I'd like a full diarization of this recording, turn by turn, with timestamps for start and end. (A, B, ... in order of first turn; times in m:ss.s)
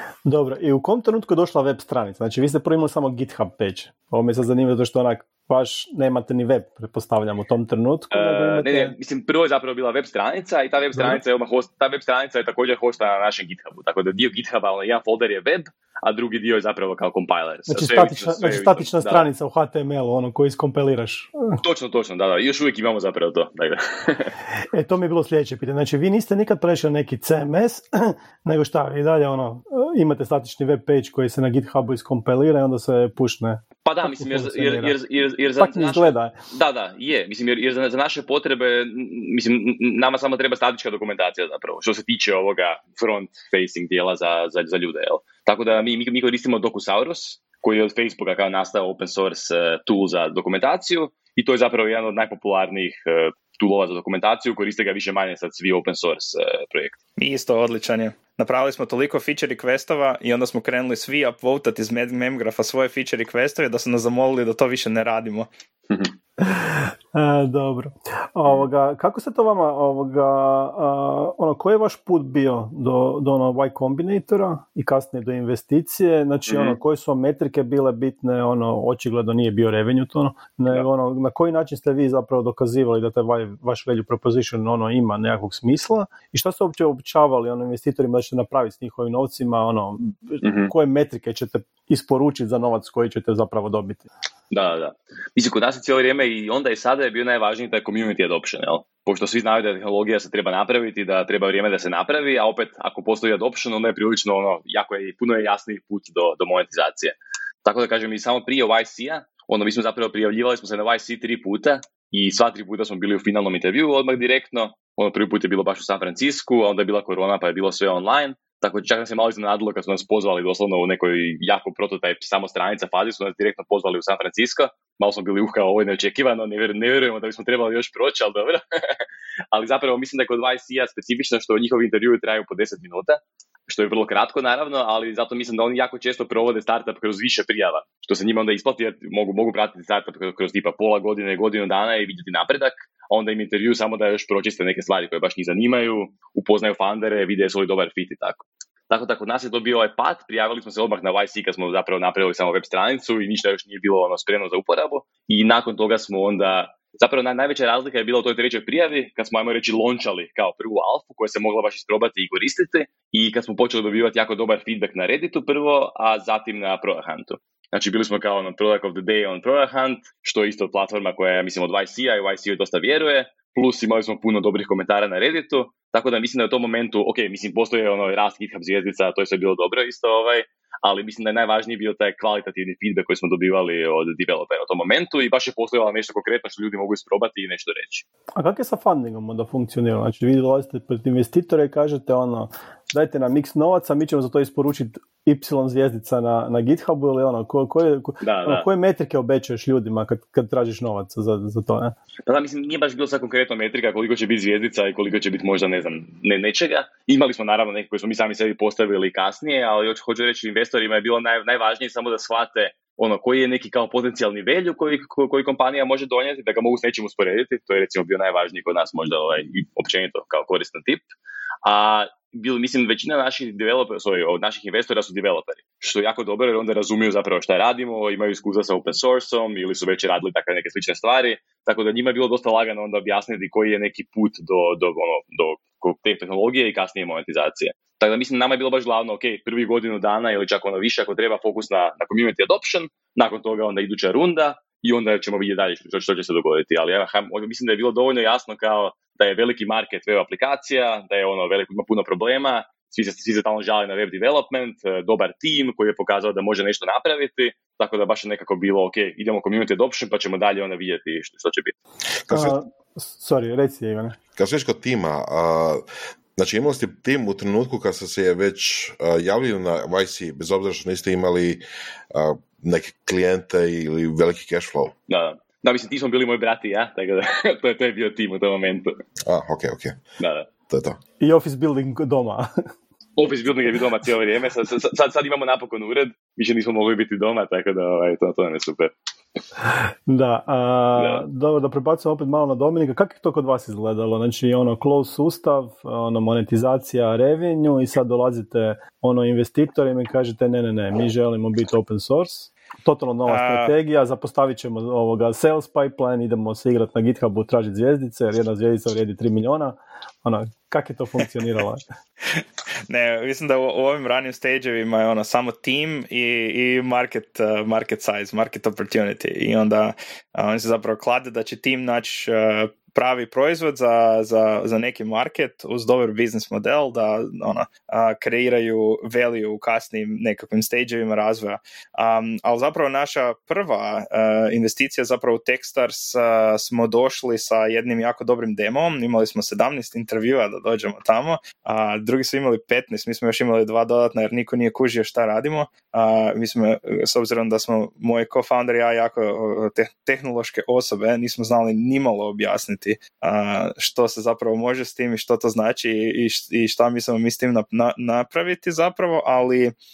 0:00.2-0:08.9 A
0:08.1-0:19.3 B
0:11.0-0:11.2 A
0:17.7-0:21.6 A
0:21.6-0:24.3 B
0:24.7-0:34.9 A
0:33.8-0:57.0 B
0:35.6-0:36.4 A
0:57.2-1:05.5 C
1:06.4-1:34.1 A
1:16.5-1:16.8 B
1:30.4-1:30.7 B
1:34.5-2:09.0 B
2:09.5-3:08.0 B
3:08.4-3:22.0 A
3:18.2-3:18.7 B
3:22.2-3:41.1 B
3:41.6-4:21.8 B
4:22.3-4:22.6 D
4:22.3-4:24.2 A
4:24.4-4:25.8 D
4:26.4-4:34.9 D
4:35.1-4:39.0 B
4:39.2-4:40.0 D
4:40.2-4:40.5 B
4:40.7-4:41.0 D
4:41.2-4:42.5 A
4:43.2-4:48.9 B
4:49.7-5:11.8 A
4:51.0-4:51.2 B
5:03.3-5:03.7 C
5:12.3-5:59.7 C